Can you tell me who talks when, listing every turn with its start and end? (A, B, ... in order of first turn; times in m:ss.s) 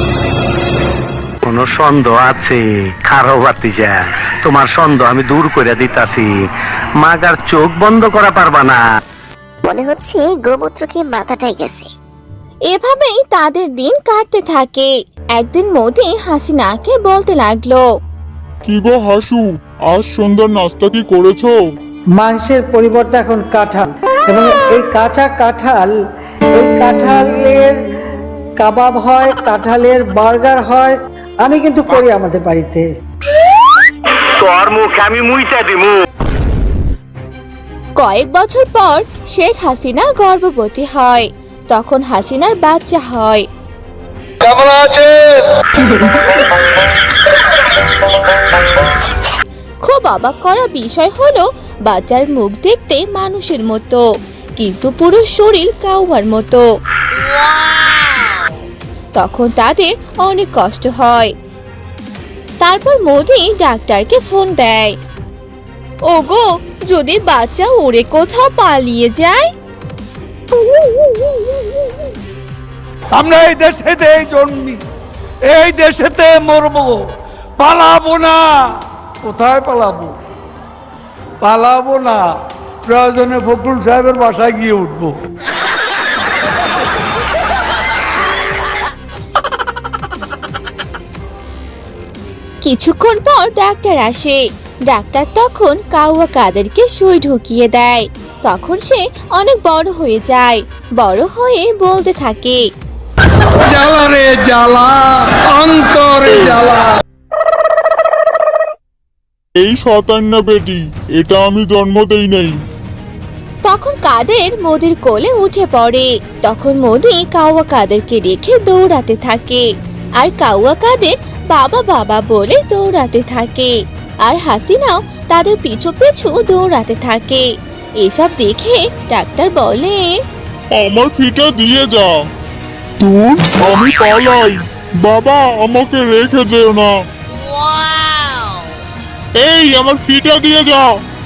0:01.5-0:06.3 A
0:07.0-0:08.8 A
0:09.7-0:11.9 B
0:12.7-0:17.8 C
0:18.6-0:21.6 D
0:22.2-0:25.9 E
0:26.6-0:27.8 E
0:28.6-0:32.9 E
0:34.4-0:35.9 A
0:38.0-0:43.4 C
0:44.5-0:45.1 F
0:49.9-0:54.0 C
0:54.6-0:56.6 C
0:59.2-1:01.3 C
1:02.6-1:04.9 C
1:06.1-1:09.5 C
1:13.1-1:14.8 F
1:15.5-1:17.0 F
1:17.6-1:18.4 F
1:19.2-1:20.1 F
1:21.4-1:22.2 F
1:22.9-1:25.1 F
1:32.6-1:42.6 C
1:43.7-1:46.8 F
1:49.6-1:52.6 D
1:53.7-1:59.6 C
2:00.2-2:03.7 C
2:04.2-2:07.4 C
2:08.0-2:10.2 C
2:10.7-2:12.1 D
2:13.0-2:16.9 D
2:19.4-2:20.9 D